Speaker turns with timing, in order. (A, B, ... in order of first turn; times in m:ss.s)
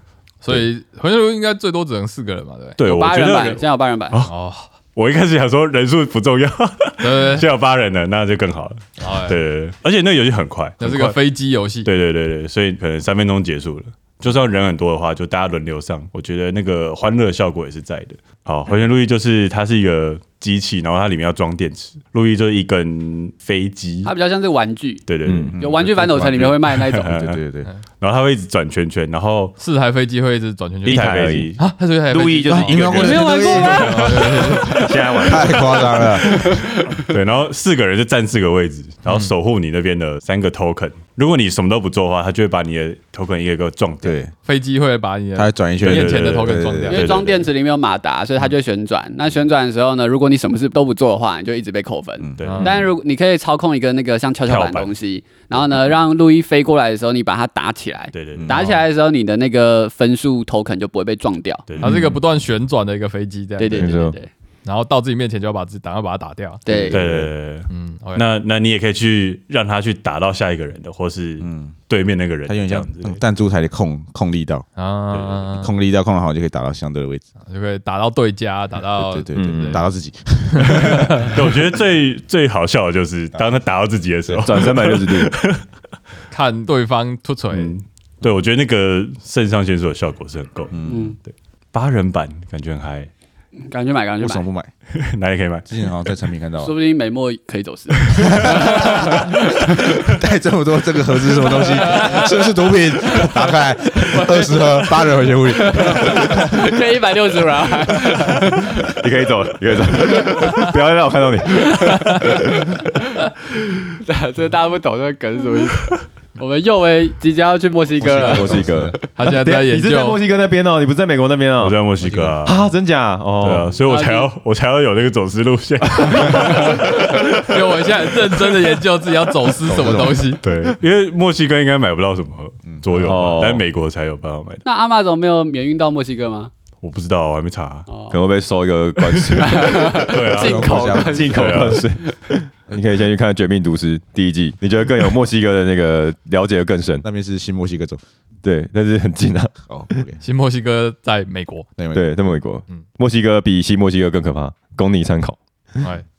0:00.4-0:02.8 A
0:02.8-0:04.3 B
0:02.8-0:04.2 C
0:04.2-0:04.6 A
0:04.9-0:11.2 B
0:07.0-0:07.5 A
0:09.0-0:09.4 A
0:10.8-0:11.9 A
0:11.8-0:24.1 B
0:24.0-0:27.1 C
0:25.1-0:27.4 B
0:25.2-0:25.6 D
0:25.5-0:25.8 E
0:27.0-0:27.7 E
0:28.0-0:29.6 B
0:29.6-0:32.9 A
0:30.8-0:31.6 B
0:30.8-0:33.6 D
0:32.5-0:36.5 E
0:33.0-0:34.8 C
0:33.7-0:34.9 A
0:34.7-0:35.8 D
0:36.4-0:36.7 C
0:37.0-0:44.2 B
0:44.0-0:44.3 E
0:44.4-0:47.1 A
0:45.4-0:47.2 E
0:45.8-0:47.5 B
0:46.9-1:01.7 C
0:52.2-0:52.6 E
0:52.4-0:52.8 B
0:52.4-0:52.7 A
0:54.4-0:54.9 B
0:58.1-0:58.6 B
0:58.3-0:58.6 E
1:01.7-1:02.1 B
1:01.8-1:04.0 A
1:01.8-1:02.1 D
1:03.6-1:04.3 C
1:03.7-1:04.2 D
1:04.6-1:06.6 A
1:06.6-1:07.0 C
1:06.7-1:07.3 E
1:06.9-1:13.2 B
1:07.7-1:08.2 A
1:11.4-1:11.7 E
1:12.5-1:14.6 E
1:14.8-1:15.7 A
1:15.1-1:15.4 B
1:15.5-1:17.2 E
1:17.5-1:19.8 A
1:19.0-1:21.4 E
1:19.4-1:19.8 D
1:20.6-1:21.0 A
1:21.1-1:25.6 B
1:24.4-1:25.4 D
1:26.3-1:27.7 A
1:27.5-1:33.1 B
1:30.7-1:31.2 E
1:30.9-1:31.2 C
1:33.6-1:34.4 C
1:34.2-1:34.7 E
1:34.9-1:36.1 B
1:35.7-1:36.7 E
1:36.6-1:40.1 C
1:38.0-1:39.0 B
1:38.1-1:46.8 E
1:41.4-1:42.5 C
1:44.0-1:49.0 C
1:48.9-1:52.9 D
1:53.8-1:58.6 C
1:58.0-1:59.0 E
1:58.0-2:01.8 D
1:59.1-2:00.2 A
2:01.6-2:02.6 B
2:02.0-2:02.4 E
2:02.4-2:03.7 D
2:03.4-2:08.6 B
2:03.8-2:04.3 C
2:06.2-2:10.4 A
2:09.6-2:10.4 E
2:10.4-2:14.6 B
2:13.0-2:13.6 D
2:14.6-2:16.5 C
2:16.8-2:17.9 B
2:17.9-2:18.2 C
2:18.1-2:19.8 D
2:19.1-2:21.8 B
2:19.4-2:22.1 C
2:20.2-2:21.6 E
2:20.7-2:27.0 D
2:27.0-2:28.0 E
2:28.4-2:30.0 D
2:29.7-2:30.2 E
2:30.2-2:31.6 A
2:31.8-2:32.1 E
2:31.9-2:35.4 D